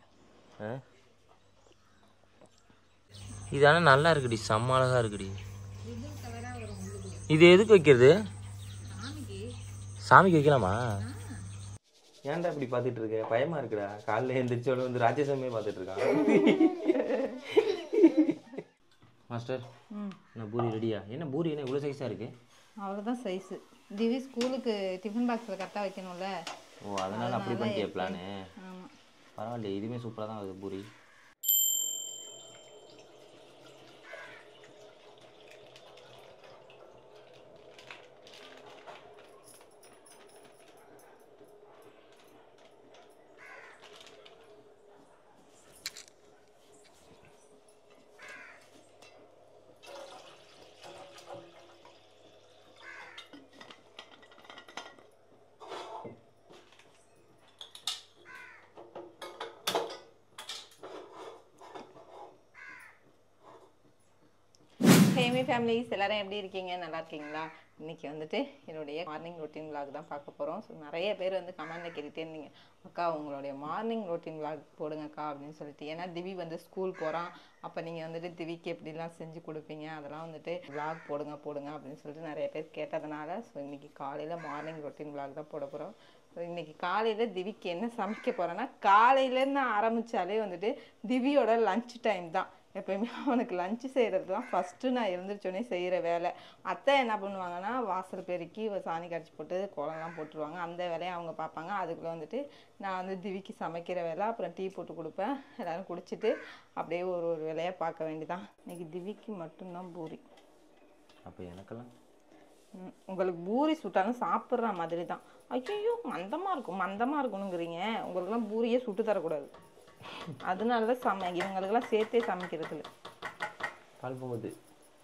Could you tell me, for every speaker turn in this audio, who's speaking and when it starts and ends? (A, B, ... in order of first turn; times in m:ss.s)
0:03.5-0:05.4 A
0:05.8-0:07.3 B
0:07.3-0:08.1 A
0:08.9-0:09.5 B
0:10.1-0:10.8 A
0:11.0-0:11.3 B
0:12.3-0:18.5 A
0:16.3-0:17.5 B
0:19.3-0:19.6 A
0:19.9-0:20.2 B
0:20.4-0:22.3 A
0:22.8-0:26.3 B
0:26.8-0:28.3 A
0:27.1-0:28.9 B
0:29.4-0:30.9 A
1:05.1-1:50.2 B
1:51.2-1:51.9 A
1:52.8-1:59.5 B
2:00.4-2:02.9 B
2:04.0-2:04.5 A